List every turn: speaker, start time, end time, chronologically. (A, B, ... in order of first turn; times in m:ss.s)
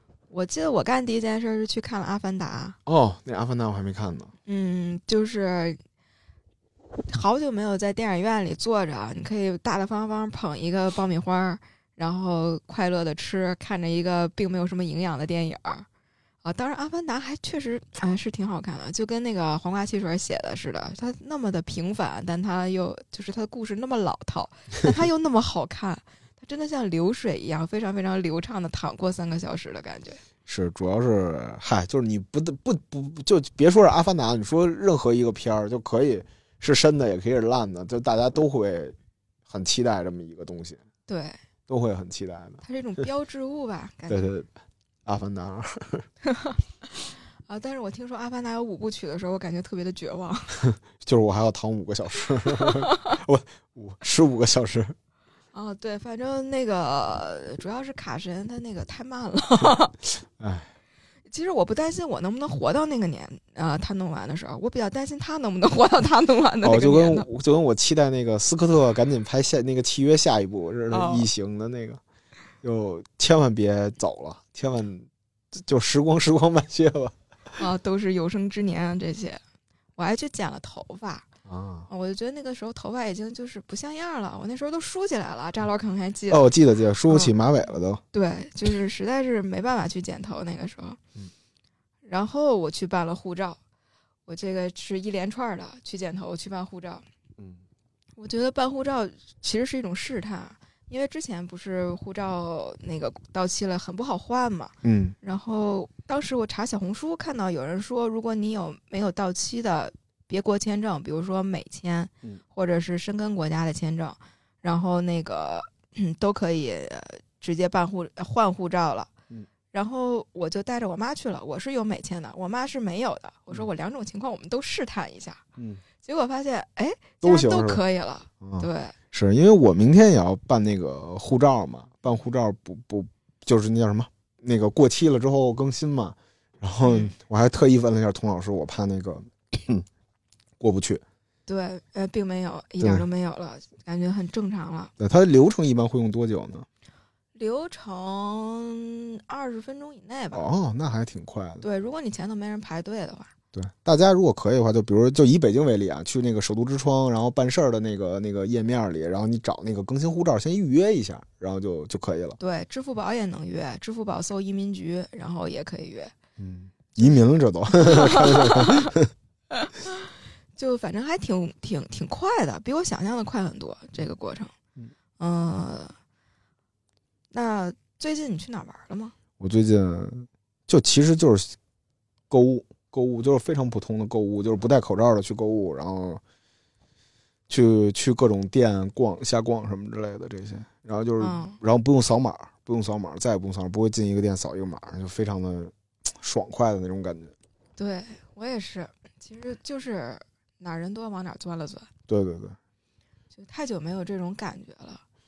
0:00.3-0:02.8 A
0:02.8-0:04.3 B
0:04.4-0:05.8 A
0:07.1-0:15.9 A
0:16.4-0:30.2 A
0:30.4-0:38.9 B
0:39.5-0:40.8 B
0:41.1-0:41.4 A
0:41.7-0:42.6 B
0:42.6-0:44.2 A
0:44.1-0:44.5 B
0:45.0-0:46.0 B
0:46.2-0:46.6 A
0:47.5-0:50.7 A
0:50.9-0:55.0 B
0:52.6-0:53.1 A
0:55.5-0:59.9 A
1:00.4-1:00.7 B
1:01.3-1:07.3 A
1:06.6-1:12.0 B
1:10.9-1:11.3 A
1:12.6-1:17.1 B
1:17.6-1:19.4 A
1:20.0-1:21.3 A
1:21.4-1:21.9 B
1:21.9-1:26.5 A
1:26.3-1:28.0 B
1:27.1-1:27.3 A
1:28.1-1:31.0 A
1:32.0-1:33.6 A
1:34.3-1:37.0 A
1:38.2-1:59.1 A
1:44.8-1:45.2 B
1:59.7-2:05.4 A
2:05.6-2:05.8 B
2:06.0-2:09.0 A
2:07.2-2:07.8 B
2:08.4-2:19.8 B
2:16.8-2:17.1 A
2:20.6-2:21.0 B
2:21.5-2:24.9 A
2:22.8-2:23.0 B
2:25.0-2:26.7 B
2:27.3-2:30.4 A
2:30.3-2:31.6 B
2:31.6-2:33.3 A
2:33.5-2:42.4 B
2:42.4-2:46.1 A
2:46.4-2:49.1 B
2:47.8-2:48.9 A
2:49.5-2:54.5 A
2:55.2-2:55.9 A
2:57.3-2:59.1 A
2:59.4-3:01.6 B
3:02.3-3:06.2 B
3:07.5-3:17.3 B
3:11.2-3:11.6 A
3:17.8-3:21.9 A
3:22.1-3:22.6 B
3:23.4-3:25.0 A